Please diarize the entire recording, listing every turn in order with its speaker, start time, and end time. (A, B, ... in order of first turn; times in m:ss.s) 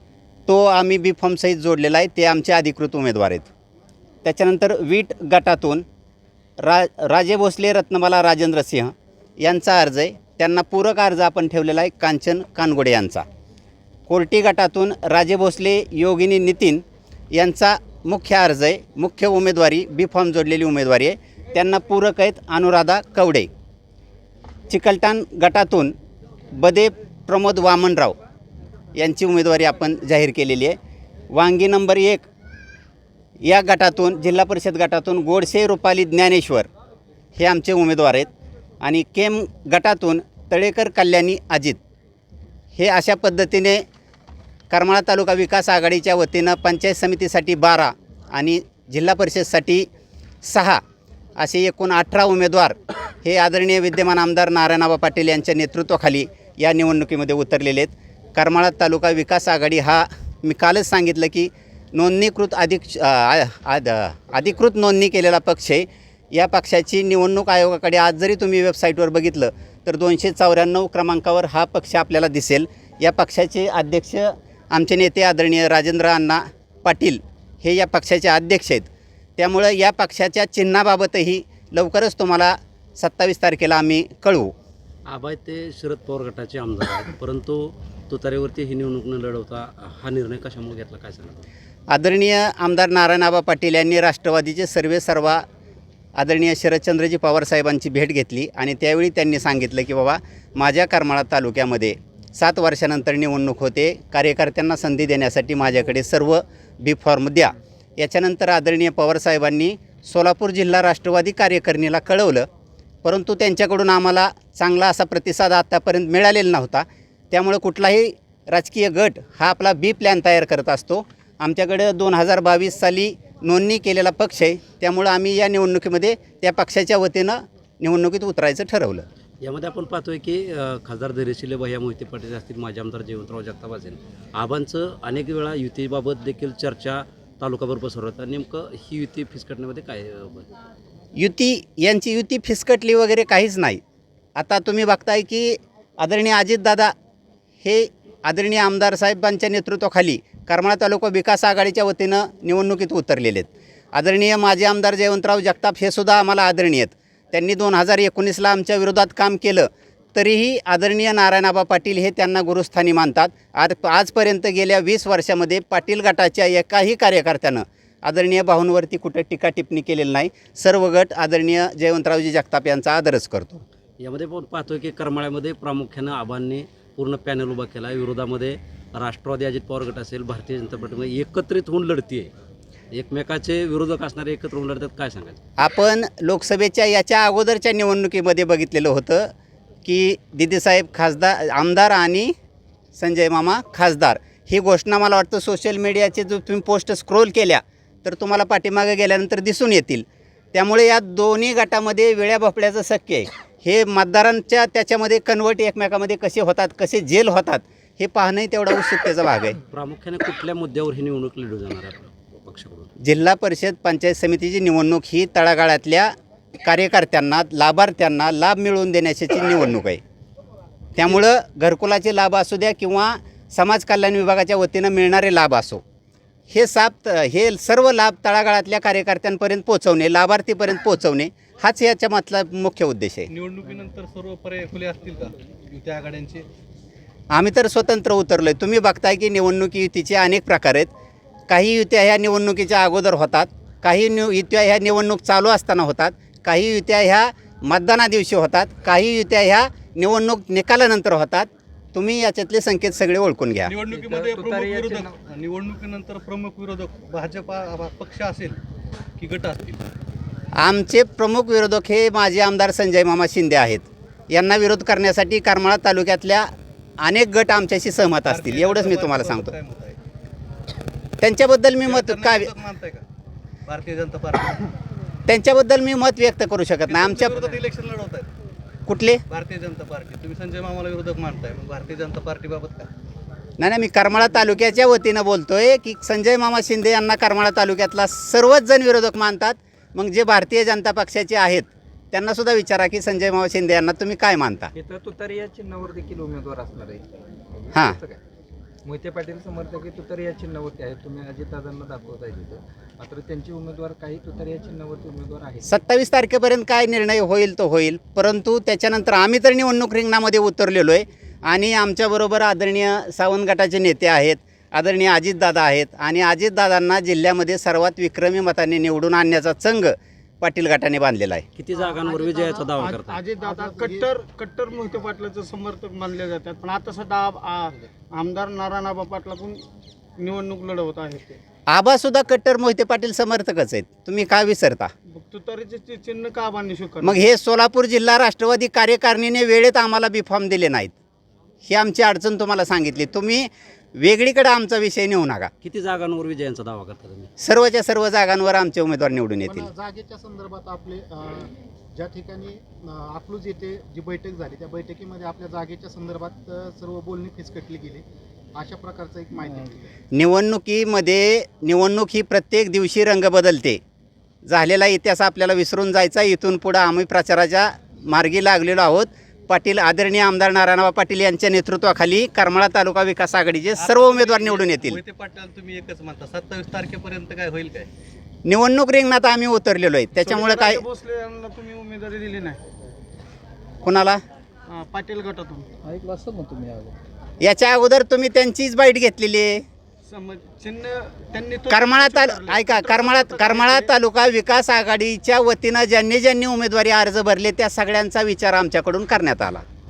0:00.5-0:03.5 A
0:04.2-0:05.8 A
0:06.6-0:13.2 A
0:14.1-0:23.5 A
0:24.7-0:25.9 A
0:26.5-0:28.2 A
0:29.0-0:30.8 A
0:31.3-0:32.3 A
0:33.4-0:36.7 A
0:37.4-0:38.3 A
0:38.8-0:41.8 A
0:42.8-0:43.8 A
0:44.7-0:49.9 A
0:50.4-0:50.8 A
0:51.4-1:24.5 A
1:25.1-1:31.4 B
1:31.9-1:35.4 A
1:36.2-1:52.5 A
1:53.0-2:09.1 A
2:09.4-2:20.5 B
2:21.2-2:23.8 A
2:24.4-2:26.9 A
2:27.6-2:53.6 A
2:54.0-3:02.3 B
3:02.9-3:05.4 B
3:05.6-3:09.3 A
3:09.8-3:12.3 A
3:13.0-3:29.6 A
3:29.7-3:32.9 B
3:33.0-3:36.1 A
3:36.6-3:40.0 A
3:41.0-3:45.8 A
3:46.5-3:53.3 A
3:53.3-3:56.5 C
3:57.3-4:00.9 A
4:01.5-4:13.7 A
4:13.7-4:18.6 C
4:13.9-4:15.1 D
4:19.2-4:19.9 C
4:20.6-4:26.5 A
4:27.0-4:29.5 A
4:28.3-4:30.0 C
4:31.2-4:32.5 A
4:31.8-4:33.0 C
4:33.7-4:34.7 C
4:35.3-4:37.5 A
4:36.9-4:38.3 C
4:38.9-4:39.2 A
4:39.3-4:42.9 C
4:43.6-4:54.7 A
4:54.8-4:58.2 D
4:58.8-5:05.8 D
5:05.6-5:21.5 A
5:21.6-5:23.2 B
5:21.9-5:24.1 E
5:22.8-5:29.6 F
5:30.2-5:31.4 F
5:31.7-5:34.9 A
5:35.1-5:37.2 F
5:37.0-5:41.0 A
5:41.6-5:45.5 A
5:45.6-5:47.3 B
5:47.4-5:49.7 A
5:49.4-5:58.0 E
5:58.6-5:59.9 E
6:00.1-6:03.8 A
6:04.4-6:15.0 A
6:13.8-6:17.9 C
6:18.4-6:20.8 A
6:20.2-6:22.6 F
6:23.8-6:24.2 A
6:24.7-6:25.7 F
6:25.8-6:27.0 D
6:27.4-6:29.6 A
6:30.0-6:33.9 F
6:31.7-6:39.6 A